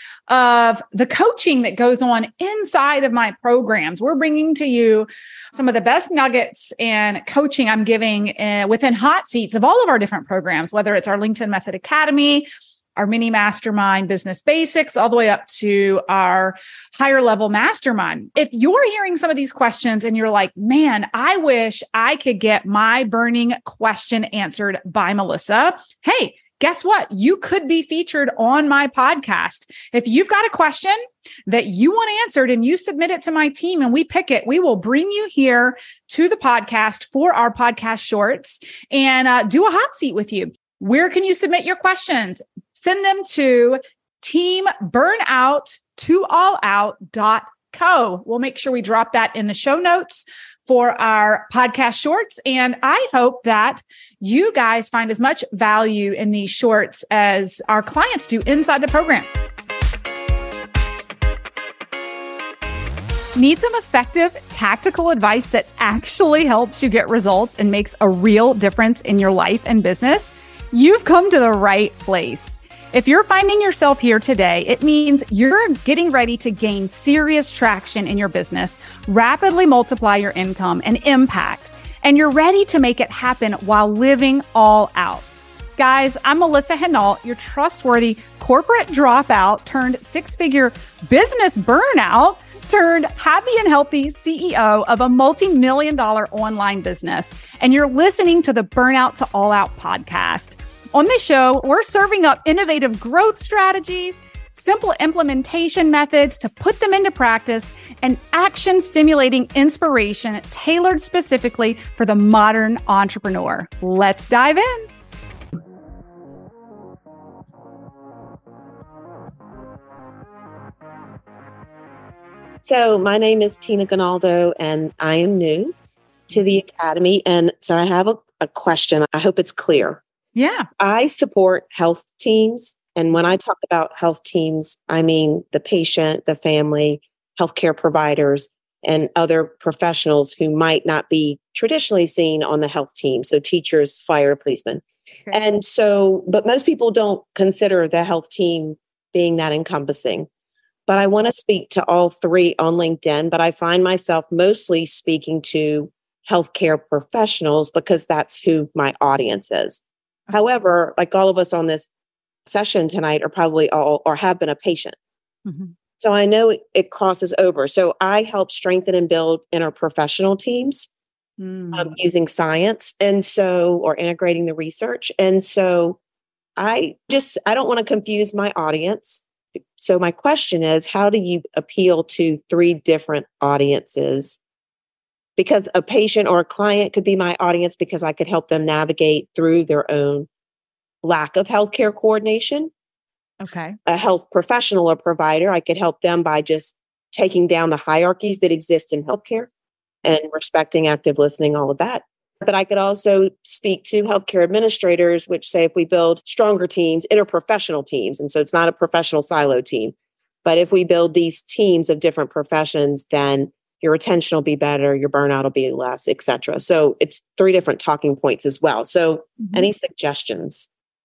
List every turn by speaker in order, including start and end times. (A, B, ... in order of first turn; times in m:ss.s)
0:00.3-0:59.3 A
1:03.3-1:25.2 A
1:25.8-1:54.9 A
2:02.6-2:05.7 B
2:06.3-2:10.0 B
2:10.3-2:10.7 A
2:10.8-2:30.3 B
2:30.9-2:41.9 B
2:42.4-2:44.9 B
2:45.4-2:45.7 A
2:46.0-2:50.9 B
2:51.4-2:51.9 A
2:51.7-2:56.0 B
2:56.6-2:59.2 B
2:59.8-3:04.4 B
3:05.4-3:10.3 B
3:11.0-3:12.7 B
3:13.4-3:13.8 A
3:13.8-3:19.5 B
3:20.0-3:40.7 B
3:39.4-3:39.7 A